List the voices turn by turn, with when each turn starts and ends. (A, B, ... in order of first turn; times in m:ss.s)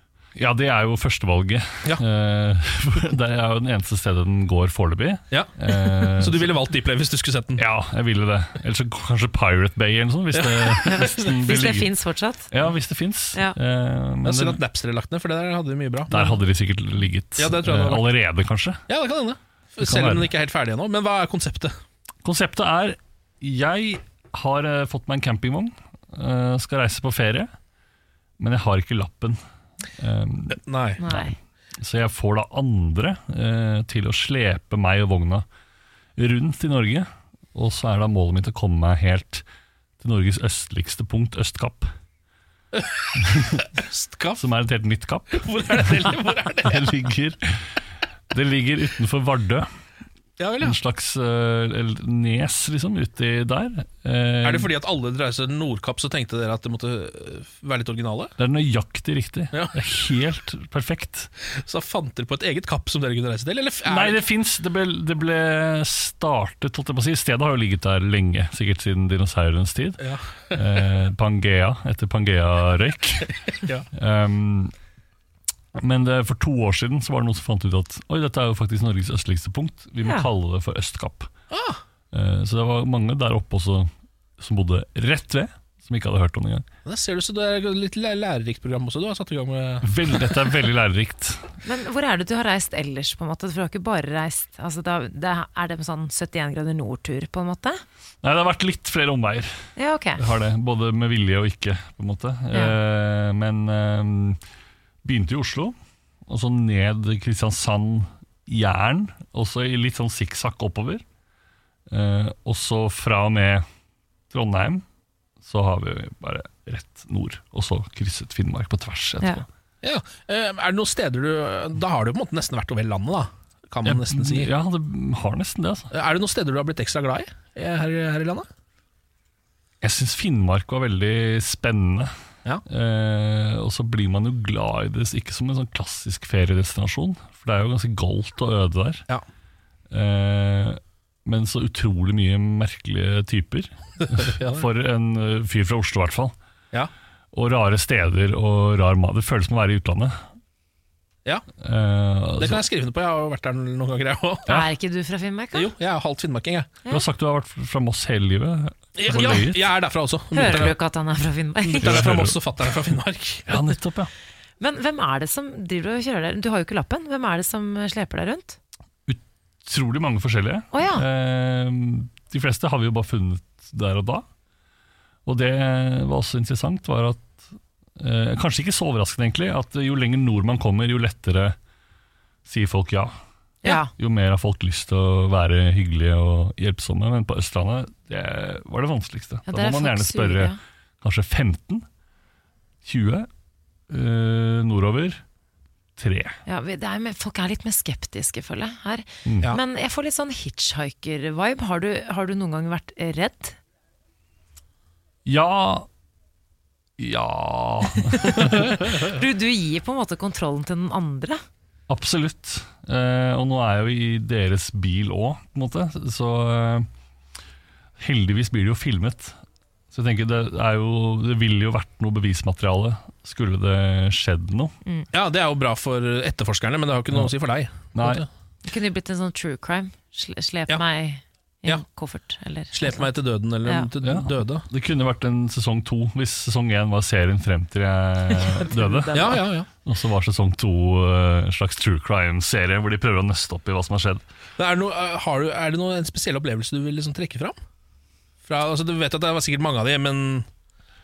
0:00.4-0:06.5 A
0:06.2-0:07.6 B
0:07.6-0:11.9 A
0:10.3-0:11.4 B
0:10.9-0:12.5 C
0:12.5-0:14.6 A
0:14.2-0:16.2 B
0:16.1-0:18.8 A
0:17.4-0:18.1 B
0:18.9-0:21.7 B
0:19.8-0:20.3 A
0:22.2-0:27.5 A
0:28.4-0:29.4 A
0:30.0-0:35.4 A
0:30.5-0:31.0 B
0:31.0-0:31.3 C
0:36.2-0:39.4 A
0:40.0-0:41.9 A
0:43.4-0:43.6 A
0:43.7-0:44.4 B
0:44.4-0:47.4 A
0:45.3-0:46.9 B
0:48.3-0:49.7 A
0:50.4-0:50.8 B
0:50.6-0:54.7 A
0:54.4-0:58.3 B
0:58.4-1:01.3 A
1:01.6-1:04.2 B
1:03.9-1:13.3 A
1:10.0-1:10.6 B
1:13.5-1:13.9 B
1:13.9-1:14.7 A
1:15.8-1:21.3 A
1:20.0-1:20.3 C
1:21.5-1:21.8 B
1:22.1-1:26.7 A
1:26.8-1:29.9 B
1:29.8-1:31.5 A
1:31.6-1:37.8 C
1:38.2-1:39.5 A
1:39.8-1:40.2 C
1:40.2-1:44.4 A
1:45.0-1:45.8 A
1:46.3-1:51.0 A
1:51.9-1:53.7 A
1:54.3-1:54.8 A
1:55.4-1:59.5 A
1:59.8-2:04.5 B
2:03.8-2:05.9 A
2:05.9-2:08.5 B
2:09.8-2:12.1 A
2:12.7-2:19.0 A
2:19.9-2:26.3 A
2:24.1-2:24.7 B
2:27.3-2:30.2 A
2:31.6-2:32.6 A
2:32.4-2:34.5 B
2:34.4-2:35.7 C
2:35.5-2:36.7 B
2:36.9-2:39.7 A
2:39.0-2:40.8 B
2:40.3-2:42.0 C
2:41.7-2:43.5 B
2:41.8-2:42.4 A
2:43.5-2:44.1 A
2:44.6-2:48.6 C
2:49.1-2:54.3 A
2:50.7-2:51.0 C
2:55.3-3:01.6 A
3:02.4-3:11.9 A
3:03.6-3:03.9 C
3:09.5-3:10.6 C
3:12.8-3:13.3 A
3:13.9-3:15.2 A
3:16.0-3:16.4 A
3:16.4-3:23.6 C
3:19.3-3:19.5 A
3:25.3-3:25.9 A
3:27.0-3:28.8 A
3:28.2-3:31.4 C
3:31.9-3:36.9 A
3:38.0-3:39.4 A
3:39.9-3:44.7 A
3:45.1-3:48.3 B
3:47.9-3:48.2 A
3:48.6-3:53.1 C
3:52.7-3:54.7 B
3:54.0-4:04.2 A
3:58.5-3:59.4 C
3:59.1-3:59.7 B
4:04.6-4:07.6 B
4:08.4-4:10.5 B